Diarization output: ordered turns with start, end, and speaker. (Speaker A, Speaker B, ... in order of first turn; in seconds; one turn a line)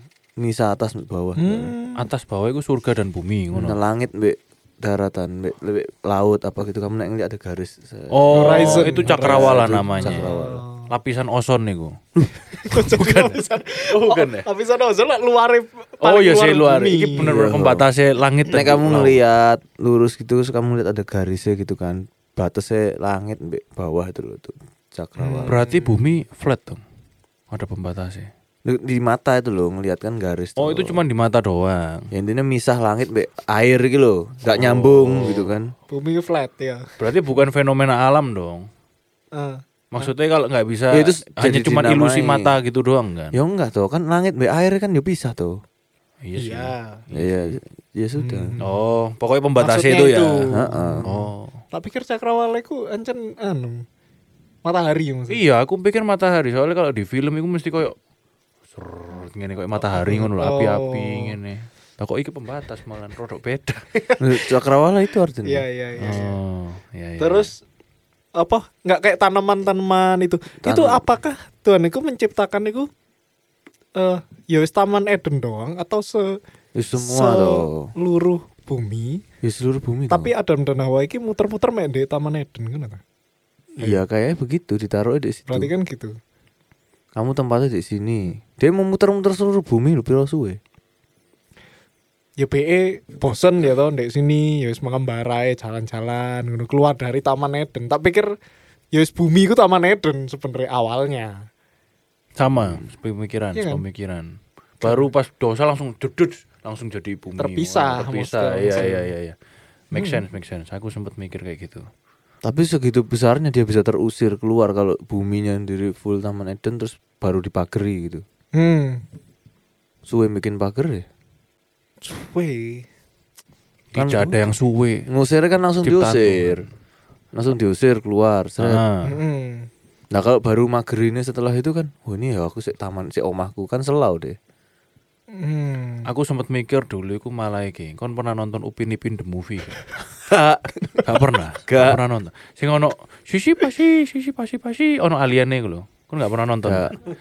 Speaker A: 0.4-1.7
Speaker B: 1.4-2.1
Speaker C: 2.0-3.8
Speaker A: 3.5-10.6
Speaker C: 8.1-10.3
Speaker B: 8.3-10.9
Speaker C: 10.9-12.0
Speaker B: 12.5-17.3
Speaker C: 12.7-14.5
Speaker C: 16.0-19.2
Speaker A: 17.2-17.9
Speaker A: 18.5-25.6
Speaker B: 25.2-26.1
Speaker C: 25.5-26.8
Speaker C: 27.5-28.3
Speaker A: 28.7-31.0
Speaker C: 30.6-32.1
Speaker A: 32.1-35.7
Speaker C: 34.5-35.5
Speaker B: 35.9-37.0
Speaker C: 37.0-38.7
Speaker B: 39.3-40.1
Speaker C: 39.9-43.4
Speaker A: 40.9-42.5
Speaker A: 43.3-45.6
Speaker C: 46.2-47.6
Speaker B: 46.4-47.0
Speaker A: 47.1-48.6
Speaker B: 48.2-48.8
Speaker C: 48.6-50.5
Speaker B: 49.6-53.8
Speaker A: 50.5-51.1
Speaker C: 51.0-51.6
Speaker B: 54.6-55.4
Speaker C: 55.3-58.0
Speaker C: 58.7-63.9
Speaker B: 59.9-61.4
Speaker A: 64.2-65.7
Speaker B: 65.5-66.4
Speaker C: 66.0-67.5
Speaker B: 67.2-67.5
Speaker B: 68.4-72.9
Speaker A: 70.6-71.0
Speaker B: 74.0-76.4
Speaker A: 76.8-77.9
Speaker B: 77.0-79.2
Speaker A: 79.4-80.3
Speaker B: 80.1-83.0
Speaker A: 83.8-85.7
Speaker B: 85.5-86.1
Speaker A: 87.2-90.6
Speaker B: 92.4-98.3
Speaker B: 98.9-101.5
Speaker C: 102.4-109.3
Speaker B: 103.5-103.8
Speaker B: 104.8-105.1
Speaker B: 107.4-109.1
Speaker C: 109.9-111.9
Speaker B: 109.9-110.2
Speaker A: 112.4-118.2
Speaker B: 118.6-119.0
Speaker A: 120.0-121.1
Speaker B: 122.0-122.9
Speaker C: 123.9-125.0
Speaker A: 124.0-124.5
Speaker A: 125.1-126.6
Speaker C: 125.8-126.7
Speaker A: 127.3-128.8
Speaker C: 128.6-129.2
Speaker B: 129.1-129.7
Speaker A: 130.1-134.4
Speaker B: 135.3-136.1
Speaker C: 136.1-139.8
Speaker A: 140.1-142.0
Speaker C: 141.1-146.9
Speaker A: 146.6-146.9